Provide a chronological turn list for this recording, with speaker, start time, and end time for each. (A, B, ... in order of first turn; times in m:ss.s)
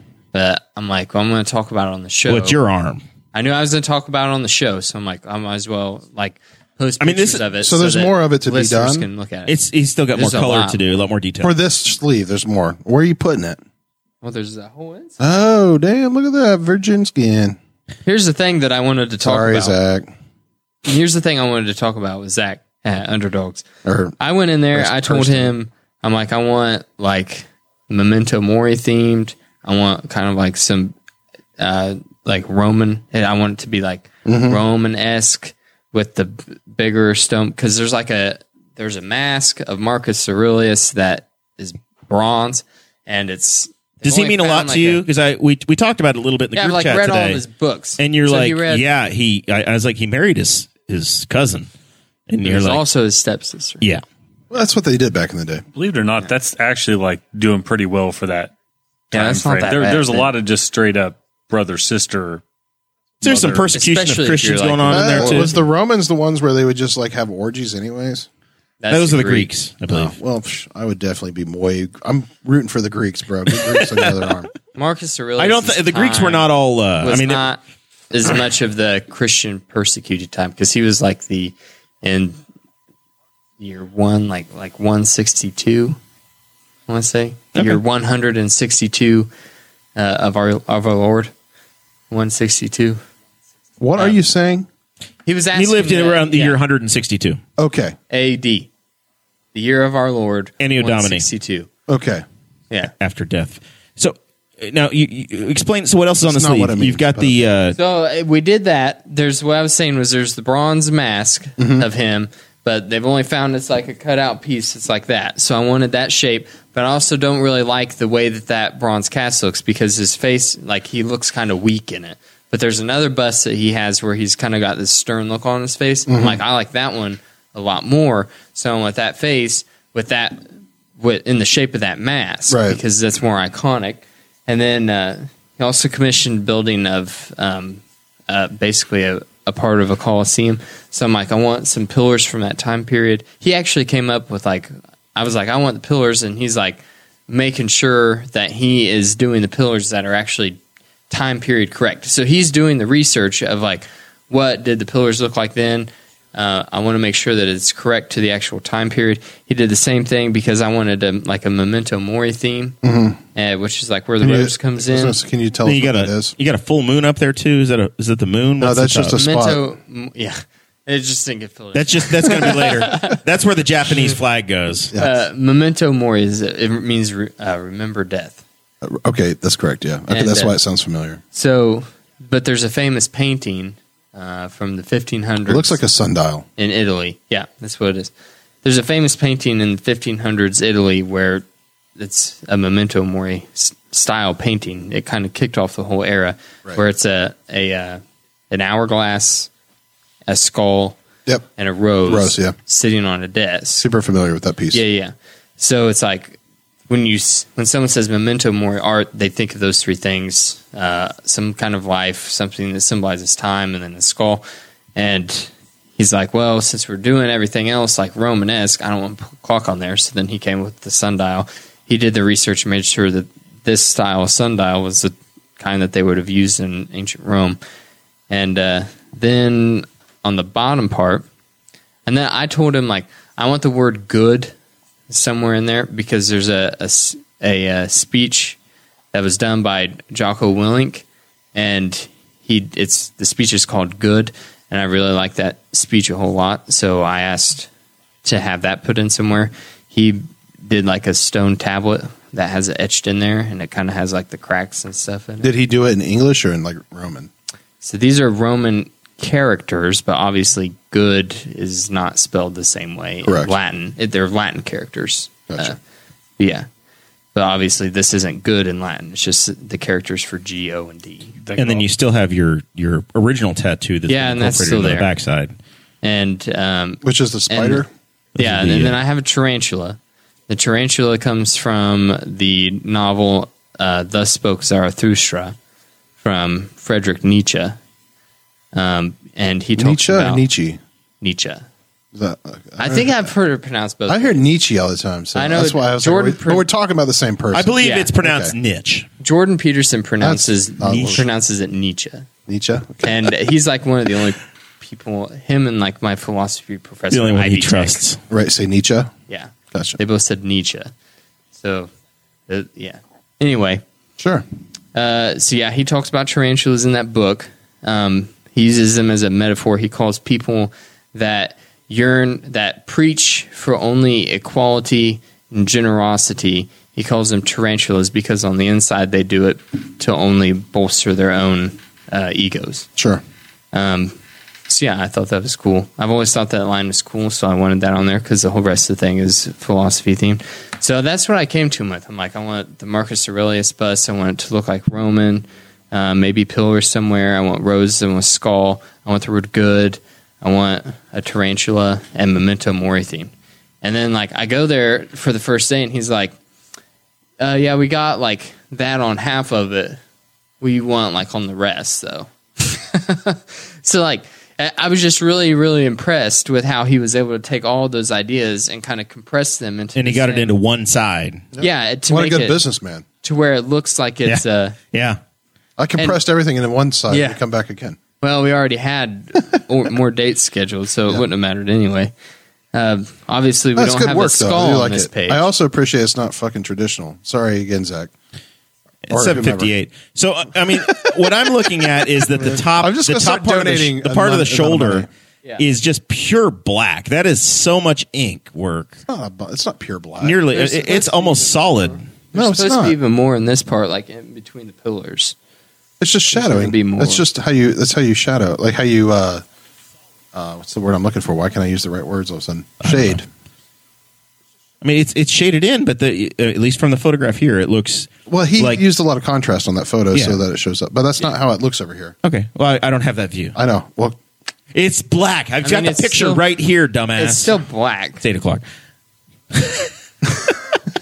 0:00.3-0:02.6 A
0:02.3-0:03.0 B
0:03.3-0:09.5 A
0:07.0-0:07.4 B
0:07.6-0:09.1 C
0:09.5-0:11.5 B
0:10.1-0:10.8 A
0:11.4-0:13.6 C
0:14.2-0:15.2 A
0:15.2-0:17.6 C
0:18.0-0:19.8 A
0:19.2-0:20.1 C
0:20.9-0:23.6 A
0:23.8-0:24.2 C
0:24.2-0:31.0 A
0:24.7-0:25.5 C
0:31.6-0:45.0 A
0:34.2-0:34.6 C
0:44.0-0:47.4 B
0:46.5-0:48.9 A
0:48.0-0:51.7 B
0:52.3-0:52.8 B
0:52.4-0:53.8 A
0:54.5-0:55.6 C
0:55.8-0:58.5 D
0:59.1-1:00.3 A
0:59.1-1:02.4 D
1:03.2-1:03.7 D
1:03.2-1:05.5 B
1:03.7-1:05.6 A
1:04.9-1:08.3 C
1:08.8-1:09.5 A
1:08.9-1:10.1 B
1:09.9-1:14.5 C
1:14.8-1:16.5 A
1:15.4-1:17.5 B
1:17.0-1:22.4 A
1:23.6-1:26.0 A
1:26.9-1:29.3 A
1:27.5-1:27.8 B
1:30.0-1:31.3 A
1:32.1-1:33.0 A
1:33.8-1:34.7 C
1:35.2-1:36.6 A
1:35.5-1:37.4 B
1:37.6-1:38.0 C
1:38.1-1:38.7 A
1:39.5-1:41.7 A
1:40.6-1:41.2 B
1:41.9-1:42.2 C
1:43.0-1:47.8 B
1:46.2-1:47.4 C
1:47.8-2:10.5 A
1:51.6-1:51.9 C
2:06.1-2:06.4 C
2:11.0-2:42.8 A
2:12.5-2:12.8 C
2:42.8-2:43.2 C
2:43.4-2:45.2 A
2:44.2-2:46.3 C
2:45.6-2:49.2 B
2:48.6-2:49.6 C
2:49.2-2:53.2 A
2:51.7-2:54.9 B
2:55.0-2:58.4 A
2:58.8-3:01.2 C
3:00.1-3:00.5 A
3:01.3-3:05.8 A
3:05.5-3:06.5 C
3:06.6-3:08.1 A
3:08.6-3:11.4 A
3:12.0-3:19.5 A
3:20.3-3:21.0 A
3:21.6-3:23.9 A
3:22.0-3:22.5 C
3:23.8-3:24.8 C
3:24.7-3:34.4 A
3:35.0-3:47.6 A
3:48.3-3:51.3 A
3:52.0-3:54.5 A
3:55.1-3:58.6 A
3:59.1-4:07.7 A
4:08.2-4:15.5 A
4:15.4-4:17.3 C
4:17.8-4:25.8 A
4:23.2-4:23.5 C
4:25.5-4:25.8 C
4:26.4-4:26.7 A
4:27.3-4:31.3 A
4:31.4-4:31.8 D
4:31.6-4:35.5 B
4:34.1-4:35.1 A
4:36.0-4:37.8 A
4:37.0-4:37.9 C
4:38.4-4:39.0 B
4:38.4-4:45.6 A
4:46.2-4:47.8 A
4:48.7-4:50.5 A
4:49.8-4:50.8 C
4:51.2-4:51.7 A
4:52.1-4:53.3 C
4:52.8-4:54.4 A
4:54.1-4:58.5 C
4:55.3-4:56.7 A
4:57.5-4:59.1 B
4:57.8-4:58.1 A
4:59.2-5:02.3 A
5:00.2-5:01.2 C
5:02.5-5:03.2 C
5:03.0-5:08.0 A
5:07.1-5:08.2 B
5:08.3-5:09.1 C
5:09.3-5:10.9 A
5:09.7-5:10.0 C
5:11.5-5:11.9 A
5:12.5-5:13.8 A
5:14.2-5:14.4 C
5:15.0-5:32.9 A
5:33.0-5:33.2 C
5:33.7-5:34.2 A
5:34.7-5:53.3 A
5:53.8-5:56.3 A
5:57.4-6:00.0 A
6:00.6-6:10.5 A
6:10.0-6:11.5 B
6:11.5-6:13.0 C
6:11.6-6:12.6 A
6:13.2-6:14.8 A
6:14.2-6:15.2 B
6:15.8-6:18.0 C
6:17.1-6:17.4 A
6:18.2-6:22.1 A
6:22.7-6:25.5 A
6:23.8-6:28.1 C
6:29.1-6:35.1 B
6:29.1-6:29.7 C
6:30.7-6:31.2 C
6:31.8-6:35.1 C
6:35.6-6:39.0 B
6:39.1-6:40.4 C
6:40.2-6:42.0 B
6:40.5-6:45.4 A
6:42.3-6:43.0 C
6:46.0-6:49.4 C
6:46.3-6:47.2 A
6:50.3-6:53.3 C
6:52.8-6:53.2 B
6:54.8-6:58.8 B
6:58.3-7:02.2 C
7:00.1-7:00.4 B
7:02.2-7:03.6 B
7:03.5-7:04.2 C
7:04.7-7:07.5 B
7:05.6-7:06.4 A
7:07.2-7:08.2 A
7:08.2-7:08.6 B
7:09.5-7:09.9 B